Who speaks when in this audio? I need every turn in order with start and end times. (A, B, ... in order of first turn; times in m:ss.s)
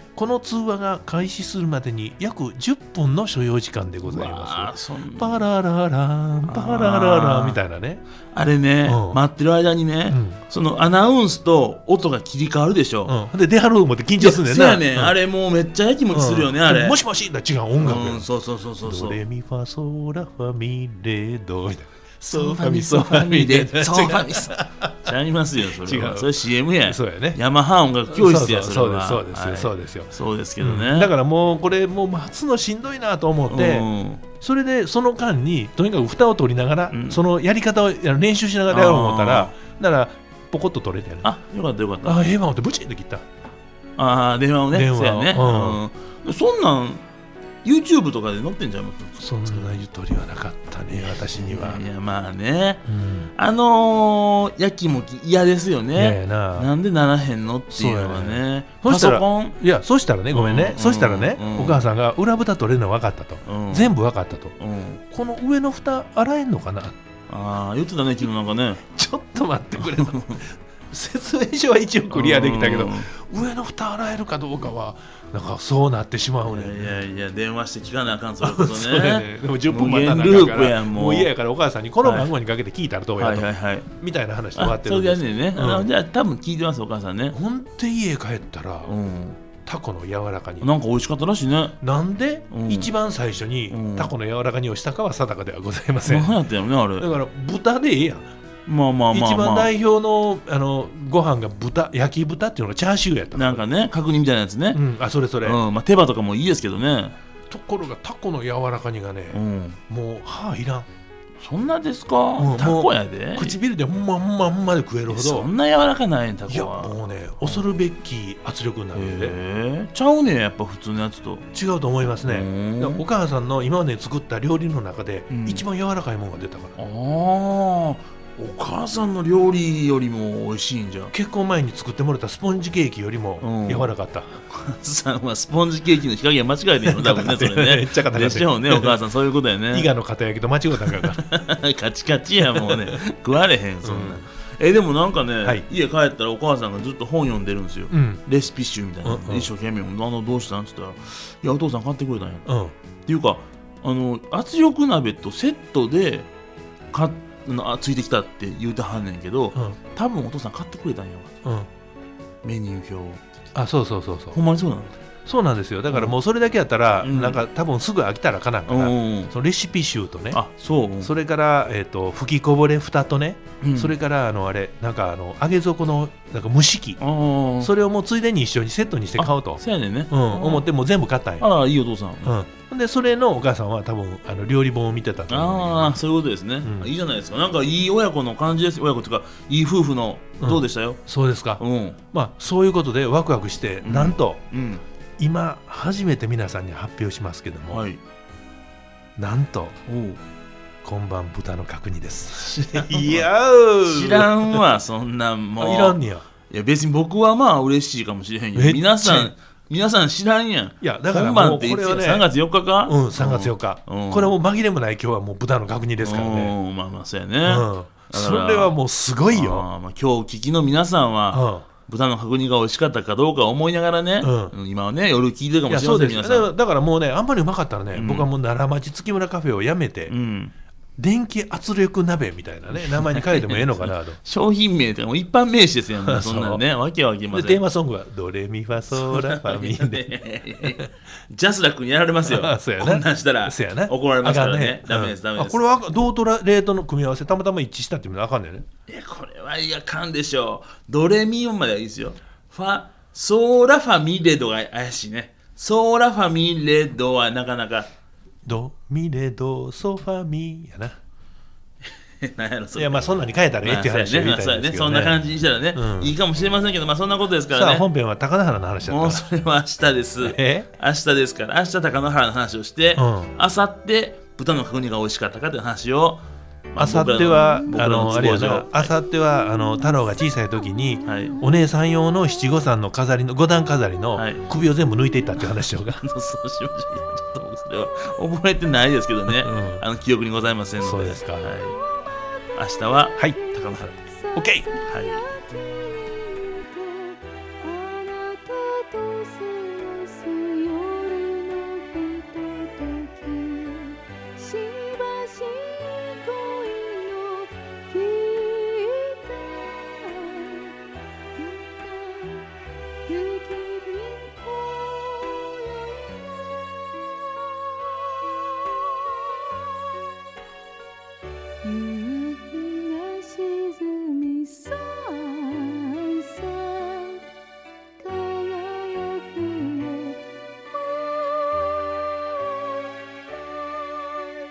0:00.2-0:08.0 A
0:04.0-0:05.4 B
0:06.5-0:07.6 B
0:08.3-0:13.2 B
0:08.8-0:09.2 A
0:10.1-0:10.4 A
0:13.1-0:15.2 A
0:14.2-0:17.0 B
0:16.1-0:18.3 A
0:17.8-0:19.2 B
0:18.8-0:25.1 A
0:22.2-0:31.1 B
0:25.8-0:27.4 A
0:28.1-0:33.9 A
0:33.5-0:34.2 B
0:34.4-0:41.3 A
0:36.9-0:37.2 B
0:38.7-0:39.6 B
0:41.2-0:42.2 B
0:42.0-0:43.2 A
0:44.0-0:47.0 B
0:44.7-0:45.8 A
0:47.6-0:49.8 B
0:49.2-0:51.8 A
0:50.9-0:59.6 B
0:52.9-0:53.3 A
0:55.9-0:56.7 A
0:57.7-1:04.6 A
1:00.3-1:01.8 B
1:03.4-1:03.9 B
1:04.6-1:05.0 B
1:05.1-1:07.0 A
1:07.3-1:08.8 B
1:08.9-1:17.0 A
1:09.8-1:10.4 B
1:12.1-1:13.1 B
1:16.5-1:21.3 B
1:18.4-1:25.9 A
1:22.0-1:22.3 B
1:23.2-1:23.9 B
1:24.6-1:27.4 B
1:27.3-1:28.9 A
1:28.9-1:29.4 B
1:29.6-1:30.7 A
1:30.6-1:31.8 B
1:31.8-1:36.4 A
1:32.5-1:32.9 B
1:33.7-1:34.1 B
1:36.1-1:37.1 B
1:37.0-1:38.3 A
1:38.7-1:39.7 B
1:39.1-1:43.7 A
1:43.3-1:44.8 B
1:44.7-1:45.6 A
1:45.4-1:47.2 B
1:47.5-1:50.9 A
1:49.3-1:49.8 B
1:51.4-1:53.6 B
1:52.4-1:55.5 A
1:55.1-1:57.6 B
1:56.5-1:59.4 A
1:58.9-2:01.5 B
2:01.5-2:06.8 A
2:02.2-2:03.0 B
2:05.3-2:05.6 B
2:06.8-2:11.1 B
2:11.1-2:14.4 A
2:13.4-2:13.9 B
2:14.5-2:19.9 B
2:16.8-2:19.0 A
2:19.7-2:21.2 A
2:20.8-2:32.5 B
2:22.6-2:23.0 A
2:23.8-2:24.2 A
2:27.9-2:28.2 A
2:29.0-2:29.5 A
2:32.5-2:32.7 A
2:33.1-2:36.3 B
2:36.9-2:41.3 B
2:42.4-2:43.2 B
2:43.6-2:44.4 A
2:44.3-2:44.9 B
2:45.2-2:50.4 A
2:45.9-2:46.2 B
2:47.0-2:47.4 B
2:48.7-2:49.3 B
2:50.3-2:51.1 B
2:51.0-2:57.0 A
2:53.6-2:53.9 B
2:57.0-2:57.7 B
2:57.6-3:01.5 A
2:59.2-3:00.7 B
3:01.4-3:02.4 B
3:02.2-3:06.0 A
3:05.3-3:11.0 B
3:06.6-3:06.9 A
3:10.4-3:11.6 A
3:11.6-3:12.0 B
3:12.1-3:14.4 A
3:13.8-3:14.8 B
3:15.2-3:17.9 A
3:17.7-3:18.0 B
3:19.2-3:19.8 A
3:19.9-3:20.2 B
3:20.8-3:24.6 A
3:22.4-3:23.2 B
3:23.8-3:26.0 B
3:25.6-3:26.2 A
3:26.5-3:34.3 B
3:28.6-3:29.3 A
3:30.8-3:32.3 A
3:32.8-3:36.6 A
3:36.0-3:38.8 B
3:37.4-3:39.7 A
3:39.3-3:46.5 B
3:41.3-3:41.7 A
3:44.2-3:44.6 A
3:45.7-3:50.1 A
3:47.9-3:48.3 B
3:50.1-3:50.5 B
3:51.0-3:54.2 A
3:52.7-3:57.6 B
3:56.0-3:56.6 A
3:57.3-4:00.9 A
3:58.9-4:05.6 B
4:02.2-4:08.6 A
4:08.9-4:17.9 B
4:18.4-4:21.0 A
4:22.2-4:23.0 B
4:22.7-4:25.2 A
4:23.6-4:27.9 B
4:25.7-4:26.1 A
4:27.5-4:29.2 A
4:28.8-4:38.8 B
4:30.2-4:30.7 A
4:33.0-4:33.3 A
4:36.8-4:46.0 A
4:41.0-4:41.4 B
4:44.1-4:44.5 B
4:46.0-4:51.8 B
4:49.4-4:49.8 A
4:50.8-4:51.5 A
4:52.5-4:54.0 B
4:54.3-5:10.8 C
4:54.4-4:54.7 A
4:54.9-4:55.3 B
5:11.4-5:12.5 C
5:13.0-5:16.2 C
5:21.6-5:27.2 C
5:28.0-5:30.2 C
5:30.8-5:32.0 C